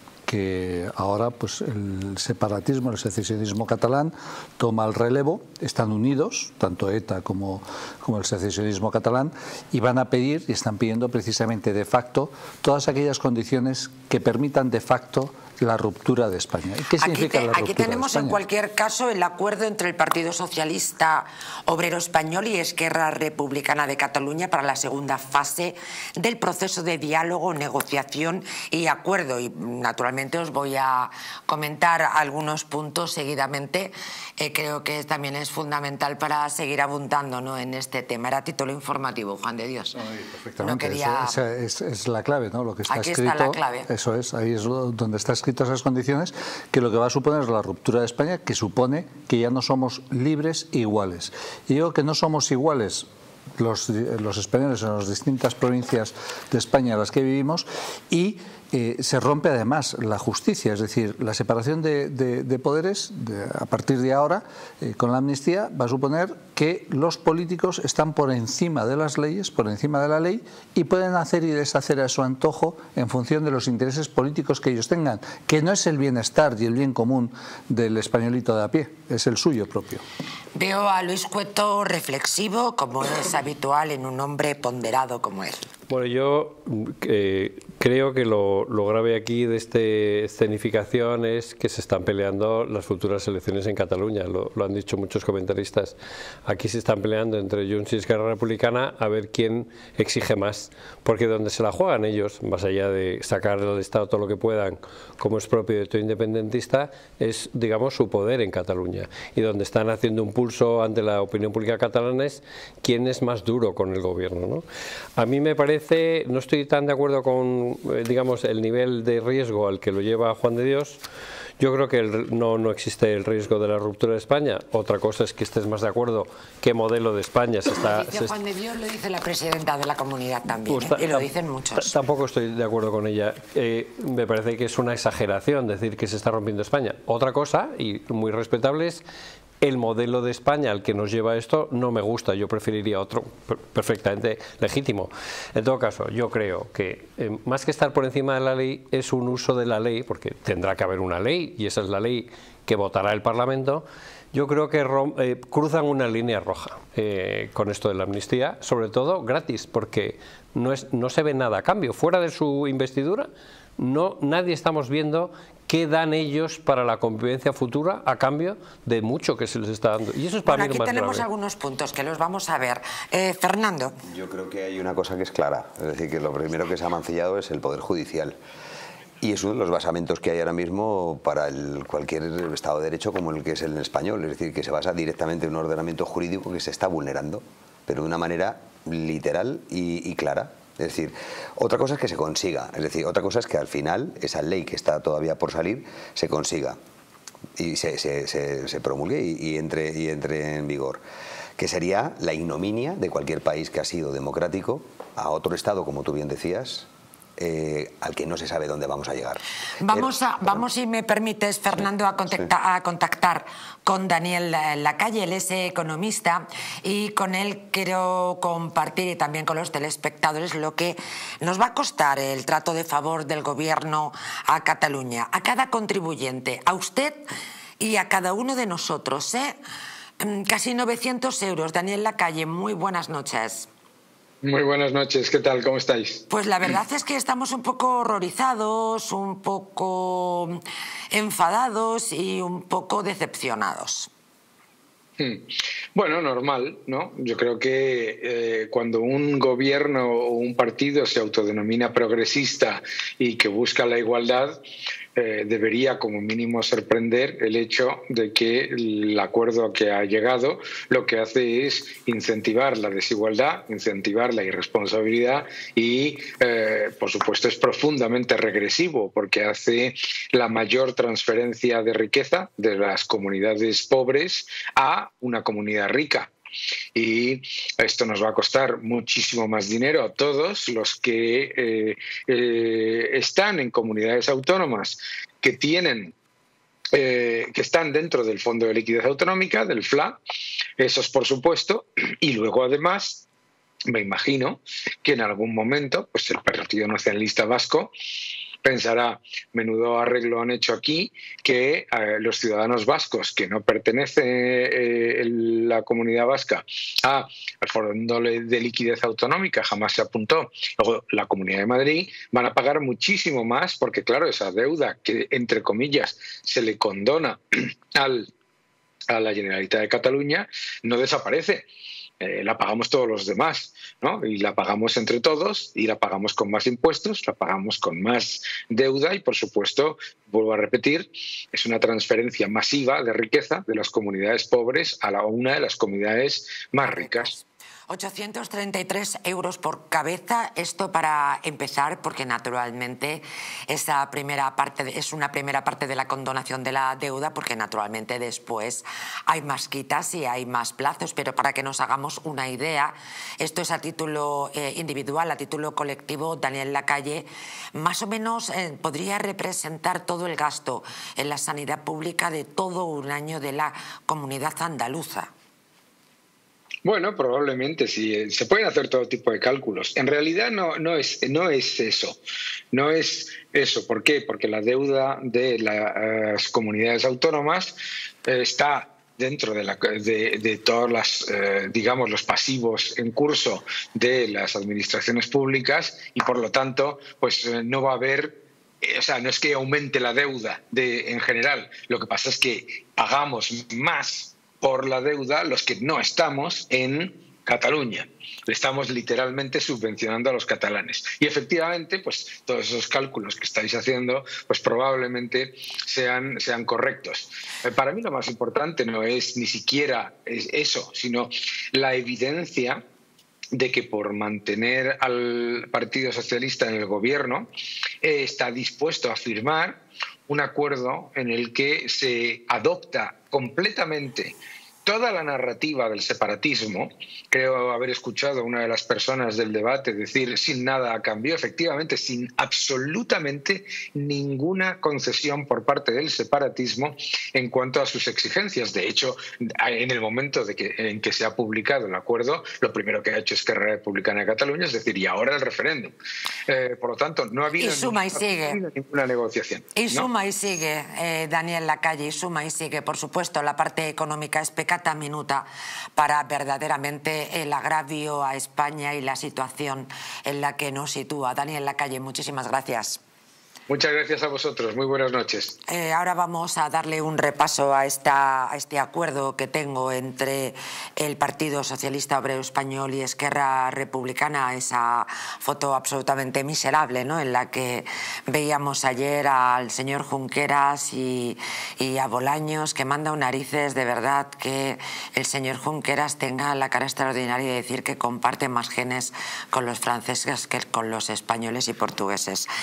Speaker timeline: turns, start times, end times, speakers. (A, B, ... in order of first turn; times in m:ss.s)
0:00.3-0:18.4 A
0:17.0-0:40.0 B
0:40.0-0:53.0 A
0:40.6-0:41.4 B
0:42.9-0:43.9 B
0:53.6-1:20.0 A
1:20.5-1:25.6 B
1:25.9-1:54.6 C
1:55.2-2:01.0 C
2:01.6-2:08.4 C
2:07.7-2:11.9 B
2:10.7-2:19.0 C
2:19.6-2:51.3 C
2:50.4-2:54.0 B
2:54.0-2:58.4 D
2:59.2-3:16.8 D
3:17.6-3:21.0 D
3:21.6-3:30.6 D
3:29.8-3:47.2 B
3:47.8-3:49.6 B
3:50.2-3:53.7 B
3:54.4-3:56.2 E
3:56.3-4:04.1 B
4:05.2-4:14.6 E
4:15.2-4:36.3 E
4:36.9-4:46.1 E
4:46.9-4:50.2 E
4:50.8-4:53.2 E
4:53.9-4:57.9 E
4:58.6-5:17.4 E
5:17.9-5:18.3 E
5:19.1-5:21.6 E
5:22.2-5:37.3 E
5:36.8-6:05.3 B
6:06.8-6:12.2 E
6:12.7-6:52.8 E
6:53.5-6:57.5 E
6:58.0-7:25.9 E
7:26.5-7:30.1 E
7:27.6-7:28.6 B
7:29.7-7:43.0 B
7:43.7-7:45.5 E
7:45.7-8:12.5 B